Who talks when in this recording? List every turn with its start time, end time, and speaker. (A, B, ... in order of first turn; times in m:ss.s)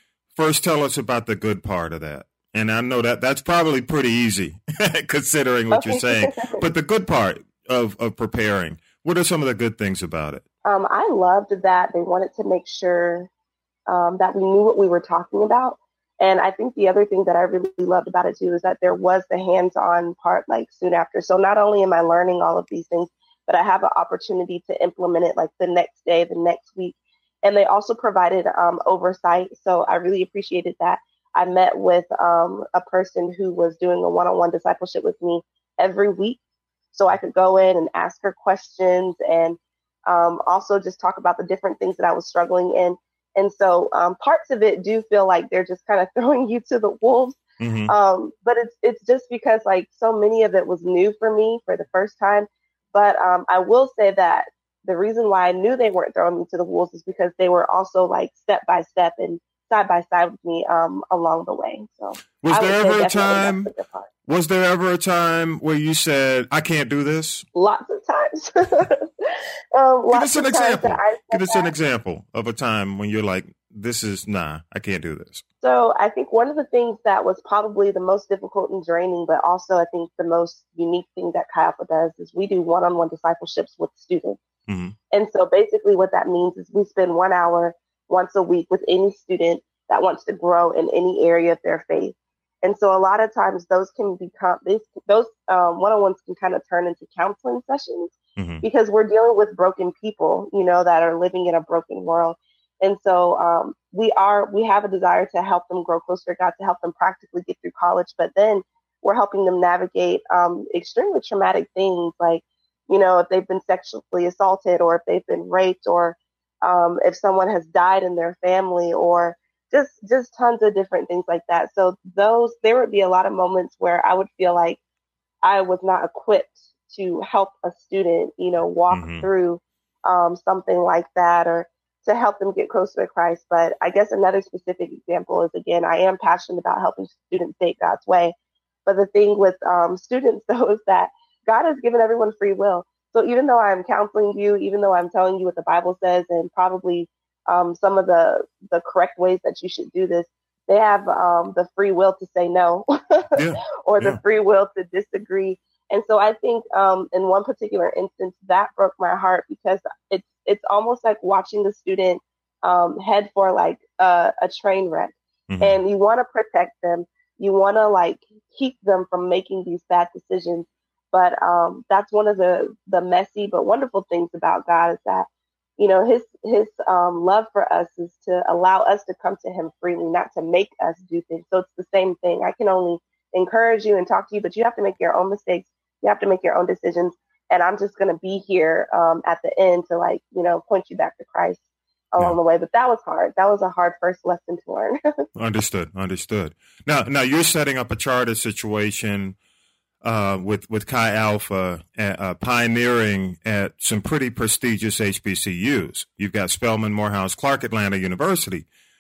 0:00.4-0:10.4 A
0:05.7-0:06.6 B
0:10.6-0:13.3 B
0:13.9-0:36.4 B
0:36.9-1:04.1 B
0:47.6-0:47.9 A
1:02.4-1:03.7 A
1:04.3-1:07.5 A
1:07.6-1:11.7 B
1:10.1-1:15.4 A
1:15.6-1:24.4 B
1:24.7-1:25.0 A
1:25.1-2:04.8 B
1:38.4-1:38.6 A
2:05.4-2:18.3 B
2:08.9-2:09.3 A
2:18.9-3:11.6 B
2:33.3-2:34.2 A
2:45.5-2:45.8 A
3:12.1-3:15.0 B
3:15.4-3:19.4 A
3:20.0-3:28.7 A